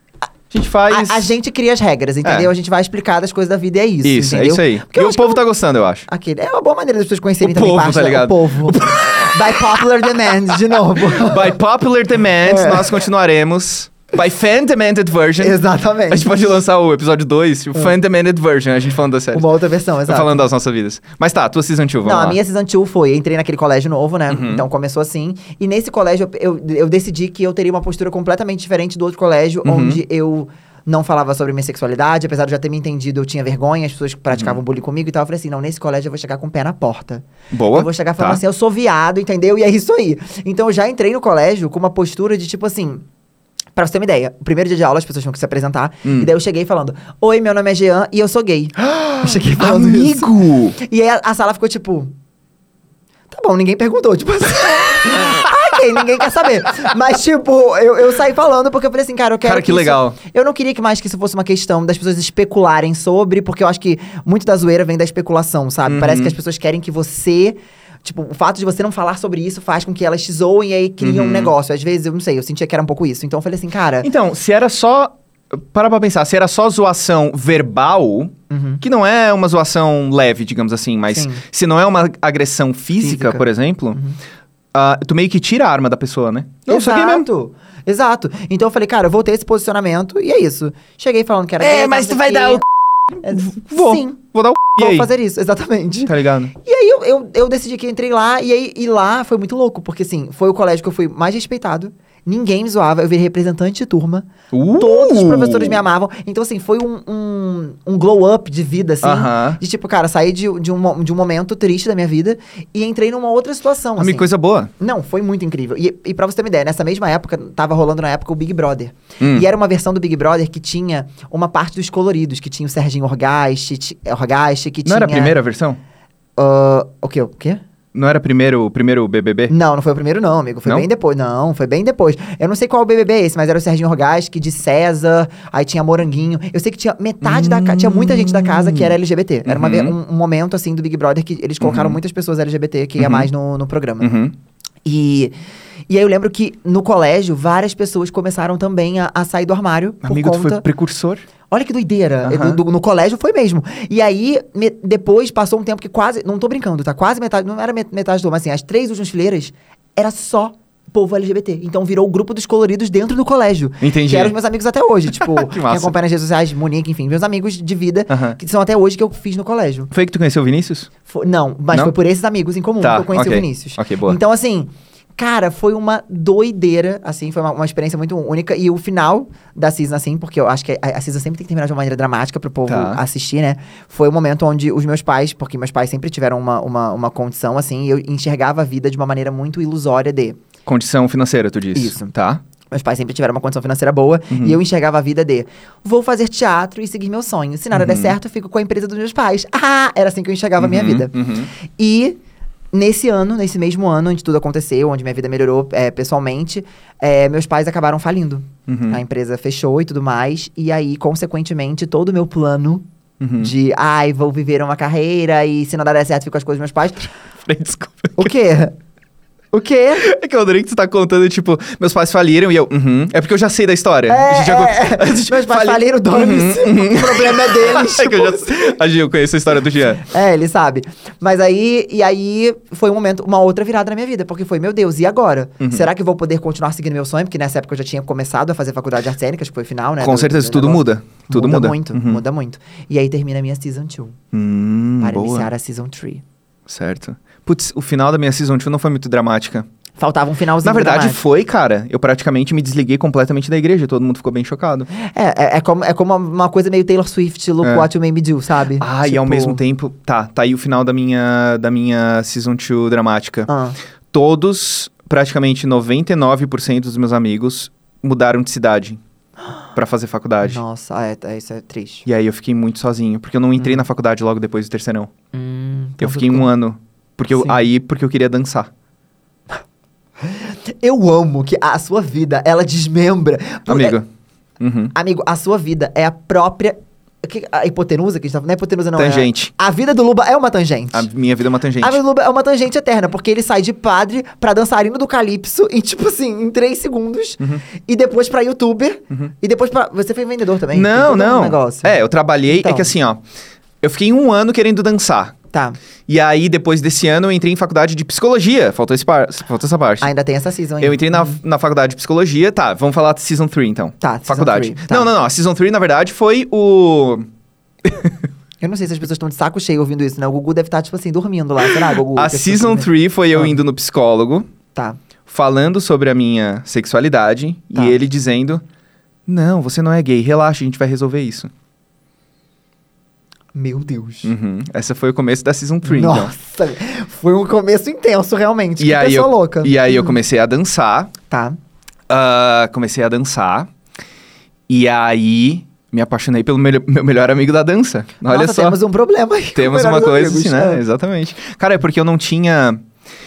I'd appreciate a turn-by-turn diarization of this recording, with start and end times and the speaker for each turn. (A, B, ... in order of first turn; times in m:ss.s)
0:00.5-0:01.3 A
0:00.9-0:05.4 B
0:02.2-0:02.5 A
0:04.0-0:06.0 A
0:06.1-0:11.6 B
0:07.4-0:19.5 A
0:12.4-0:13.0 B
0:15.4-0:16.4 B
0:19.3-0:20.4 B
0:20.0-0:22.4 A
0:22.0-0:43.0 B
0:24.3-0:24.6 A
0:29.6-0:30.0 A
0:34.3-0:34.6 A
0:37.5-0:38.4 A
0:43.8-0:52.1 B
0:46.0-0:46.3 A
0:48.8-0:50.8 A
0:53.3-1:14.1 B
0:59.4-1:00.2 A
1:05.8-1:06.4 A
1:11.0-1:11.5 A
1:14.0-1:24.0 A
1:18.5-1:18.8 B
1:21.1-1:21.4 B
1:23.0-1:24.2 B
1:24.7-1:27.2 A
1:26.7-1:32.6 B
1:31.6-1:35.1 A
1:33.2-1:34.2 B
1:34.8-2:05.4 B
1:36.1-1:36.5 A
1:44.5-1:45.8 A
1:49.0-1:49.6 A
1:54.0-1:54.7 A
1:59.2-1:59.5 A
2:04.8-2:05.8 A
2:06.4-2:07.6 B
2:07.9-2:09.5 A
2:09.5-2:24.1 B
2:17.2-2:20.0 A
2:21.6-2:22.0 A
2:23.0-2:23.3 A
2:24.0-2:24.3 A
2:24.8-2:25.3 B
2:25.9-2:30.6 B
2:30.0-2:31.3 A
2:31.5-2:49.9 B
2:32.2-2:32.6 A
2:43.8-2:44.3 A
2:45.1-2:45.9 A
2:48.1-2:48.4 A
2:49.9-2:50.9 A
2:51.1-3:10.4 B
2:52.8-2:54.2 A
3:02.7-3:03.0 A
3:10.6-3:12.4 A
3:11.7-3:12.1 B
3:12.7-3:21.1 B
3:14.3-3:14.6 A
3:17.7-3:18.2 A
3:20.6-3:21.5 A
3:21.6-3:22.2 B
3:22.7-3:32.8 B
3:28.7-3:29.0 A
3:33.2-3:33.5 A
3:33.4-3:37.1 B
3:37.4-3:38.3 A
3:38.2-3:38.8 B
3:39.5-3:40.1 B
3:40.0-3:50.0 A
3:44.1-3:48.8 B
3:50.0-4:04.2 B
3:55.6-3:55.9 A
4:00.0-4:02.2 A
4:04.3-4:05.5 A
4:05.0-4:06.2 B
4:06.7-4:09.6 A
4:10.0-4:11.2 B
4:10.6-4:14.9 A
4:14.9-4:19.6 B
4:17.6-4:17.9 A
4:18.8-4:23.5 A
4:23.5-4:23.8 B
4:24.1-4:29.0 A
4:29.7-4:30.6 A
4:30.4-4:32.0 B
4:32.0-4:35.1 A
4:33.6-4:33.8 B
4:35.3-4:36.5 B
4:36.0-4:38.7 A
4:37.3-4:37.6 B
4:40.2-4:44.0 B
4:43.7-4:44.0 A
4:44.6-4:44.9 A
4:44.9-4:51.1 B
4:49.0-4:49.5 A
4:50.9-4:52.0 A
4:51.8-5:02.9 B
5:00.7-5:03.2 A
5:03.8-5:05.3 A
5:05.5-5:05.8 B
5:06.1-5:10.1 A
5:10.0-5:11.4 B
5:10.8-5:17.3 A
5:14.0-5:15.1 B
5:17.8-5:18.2 A
5:18.6-5:23.6 B
5:21.6-5:24.4 A
5:25.3-5:28.6 A
5:29.3-5:31.5 A
5:33.5-5:34.3 B
5:34.2-5:36.3 A
5:35.8-5:40.2 B
5:38.8-5:41.1 A
5:41.3-5:41.6 B
5:42.1-5:43.7 A
5:44.7-5:48.8 A
5:48.2-5:50.8 B
5:49.5-5:52.8 A